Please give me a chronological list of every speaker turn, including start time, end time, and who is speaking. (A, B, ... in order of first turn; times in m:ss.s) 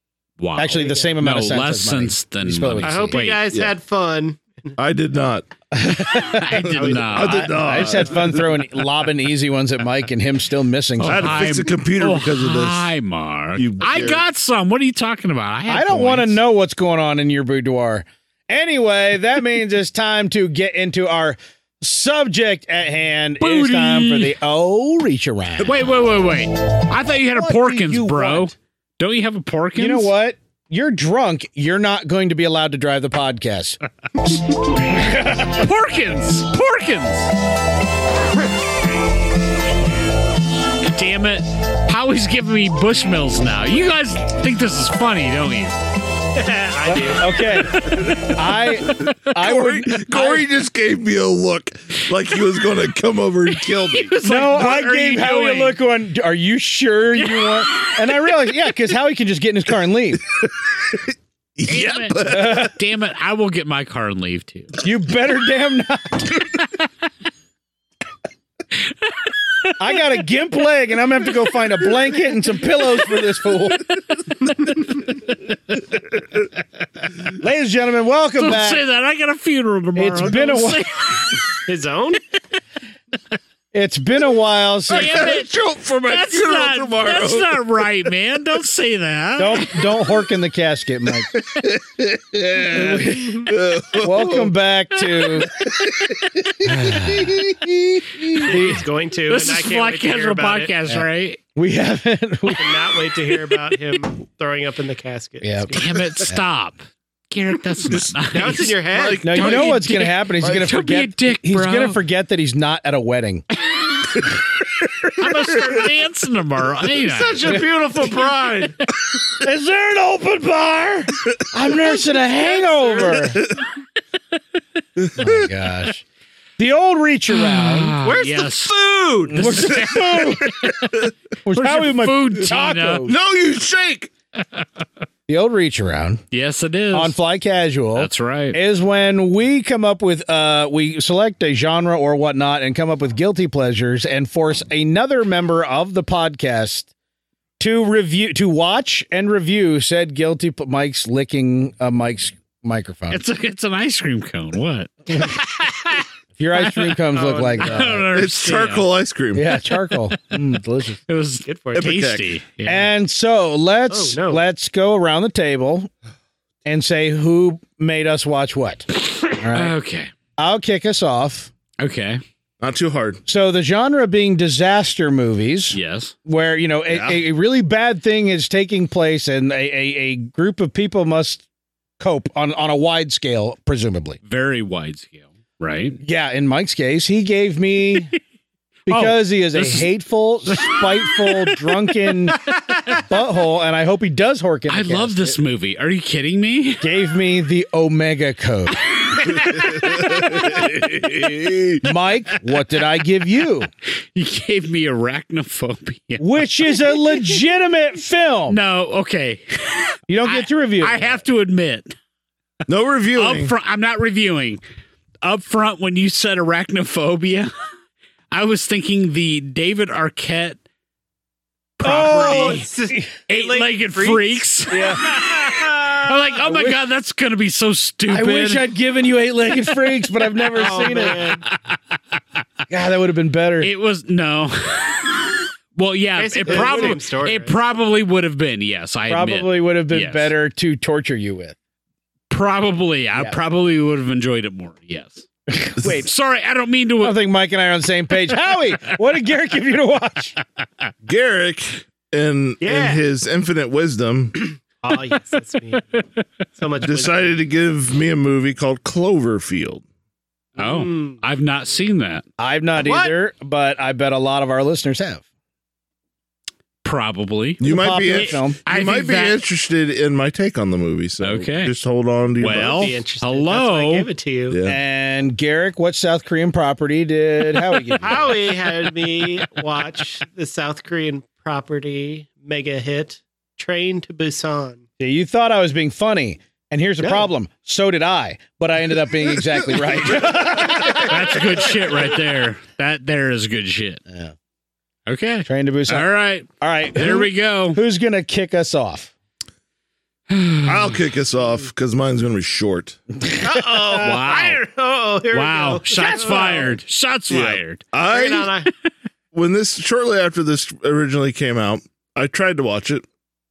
0:00.4-0:03.4 A
0:00.6-0:03.2 B
0:00.8-0:01.1 C
0:02.8-0:04.8 C
0:04.8-0:05.5 D
0:05.7-0:06.6 B
0:06.2-0:07.6 A
0:06.6-0:08.5 D
0:06.7-0:08.3 C
0:07.5-0:11.6 B
0:11.0-0:16.4 A
0:11.0-0:12.9 D
0:13.6-0:14.2 D
0:15.7-0:25.9 B
0:23.4-0:24.3 A
0:25.6-0:30.1 A
0:27.3-0:28.5 B
0:29.8-0:33.8 B
0:34.9-0:35.6 B
0:35.4-0:37.3 A
0:40.8-0:45.8 A
0:46.4-0:47.6 C
0:46.9-0:50.5 B
0:47.7-0:48.3 A
0:48.9-0:54.2 D
0:53.5-0:55.8 A
0:54.2-1:00.2 B
0:57.2-0:58.0 A
1:00.4-1:02.7 D
1:01.7-1:04.8 A
1:02.2-1:02.8 B
1:04.8-1:06.5 B
1:09.3-1:09.7 A
1:09.8-1:14.5 B
1:17.3-1:18.8 B
1:18.4-1:21.4 A
1:20.0-1:20.8 B
1:21.7-1:22.2 C
1:23.7-1:25.3 B
1:24.9-1:30.0 A
1:24.9-1:27.5 D
1:29.4-1:31.3 B
1:31.3-1:34.5 D
1:32.7-1:35.5 B
1:35.5-1:37.7 D
1:36.6-1:37.6 B
1:38.2-1:38.8 B
1:38.4-1:40.8 C
1:39.3-1:41.4 A
1:40.9-1:42.8 B
1:42.5-1:46.2 C
1:45.4-1:46.4 B
1:45.7-1:48.8 A
1:48.3-1:49.4 C
1:48.9-1:49.8 D
1:49.2-1:53.4 B
1:49.3-1:52.0 A
1:55.2-1:57.6 A
1:55.2-1:55.6 D
1:57.1-1:58.8 C
1:59.4-2:03.4 B
2:02.1-2:03.4 C
2:05.0-2:05.4 D
2:05.2-2:06.0 B
2:06.6-2:07.9 B
2:07.3-2:10.8 A
2:08.0-2:09.8 C
2:09.3-2:10.7 B
2:10.8-2:11.1 D
2:11.4-2:13.2 B
2:11.5-2:13.1 A
2:13.0-2:14.1 D
2:15.3-2:16.2 B
2:16.3-2:17.2 A
2:16.9-2:26.9 B
2:18.0-2:18.6 A
2:27.6-2:33.2 B
2:33.1-2:36.0 A
2:36.4-2:38.1 B
2:36.6-2:37.0 A
2:37.1-2:37.9 C
2:37.6-2:38.9 A
2:38.1-2:39.6 D
2:39.3-2:41.0 B
2:39.9-2:40.3 A
2:41.1-2:42.9 A
2:41.4-2:42.0 C
2:41.8-2:42.3 D
2:42.6-2:45.9 B
2:43.9-2:44.4 C
2:46.6-2:49.8 B
2:49.5-2:50.1 A
2:50.4-2:51.5 B
2:51.8-2:52.2 A
2:52.6-2:53.2 D
2:53.3-3:01.4 B
2:55.7-2:56.1 A
2:56.9-2:57.2 D
3:02.0-3:04.2 B
3:04.2-3:06.0 A
3:06.0-3:08.1 B
3:08.9-3:09.9 A
3:08.9-3:12.4 B
3:10.5-3:11.8 A
3:13.0-3:15.4 B
3:14.7-3:16.9 A
3:16.8-3:18.8 B
3:19.3-3:21.8 D
3:20.3-3:20.5 A
3:21.8-3:23.7 B
3:24.2-3:27.2 A
3:26.2-3:28.6 B
3:28.5-3:32.0 A
3:30.1-3:31.1 B
3:32.7-3:33.5 D
3:33.2-3:34.6 A
3:35.2-3:37.5 A
3:38.3-3:40.6 A
3:41.8-3:42.7 A
3:41.8-3:43.1 B
3:42.1-3:44.5 C
3:43.3-3:48.7 A
3:44.7-3:46.8 B
3:48.1-3:51.4 B
3:50.5-3:51.4 C
3:50.6-3:51.8 A
3:52.7-3:53.7 B
3:53.6-4:00.3 A
3:56.2-3:57.6 C
3:56.5-3:57.0 B
3:59.1-4:01.6 B
4:02.3-4:05.3 A
4:05.5-4:06.1 B
4:05.8-4:07.2 A
4:07.0-4:10.4 B
4:11.0-4:14.5 D
4:12.6-4:13.0 C
4:14.8-4:15.8 C
4:16.6-4:17.4 C
4:16.8-4:19.8 D
4:20.6-4:21.2 C
4:20.6-4:22.2 A
4:22.4-4:25.2 B
4:22.8-4:23.2 C
4:26.8-4:29.4 A
4:27.6-4:28.6 B
4:27.6-4:32.9 D
4:31.2-4:31.7 A
4:32.4-4:34.1 A
4:32.6-4:34.6 C
4:34.5-4:34.8 D
4:34.6-4:38.4 B
4:37.9-4:38.2 A
4:38.0-4:44.8 C
4:45.0-4:51.6 B
4:47.0-4:47.3 C
4:51.0-4:54.0 A
4:55.1-4:57.8 A
4:55.5-4:56.1 B
4:56.6-4:59.1 B
5:00.3-5:00.9 A
5:00.6-5:03.0 D
5:03.4-5:06.8 C
5:03.9-5:04.6 A
5:05.3-5:07.8 A
5:07.3-5:08.5 D
5:08.0-5:08.7 C
5:09.3-5:13.1 D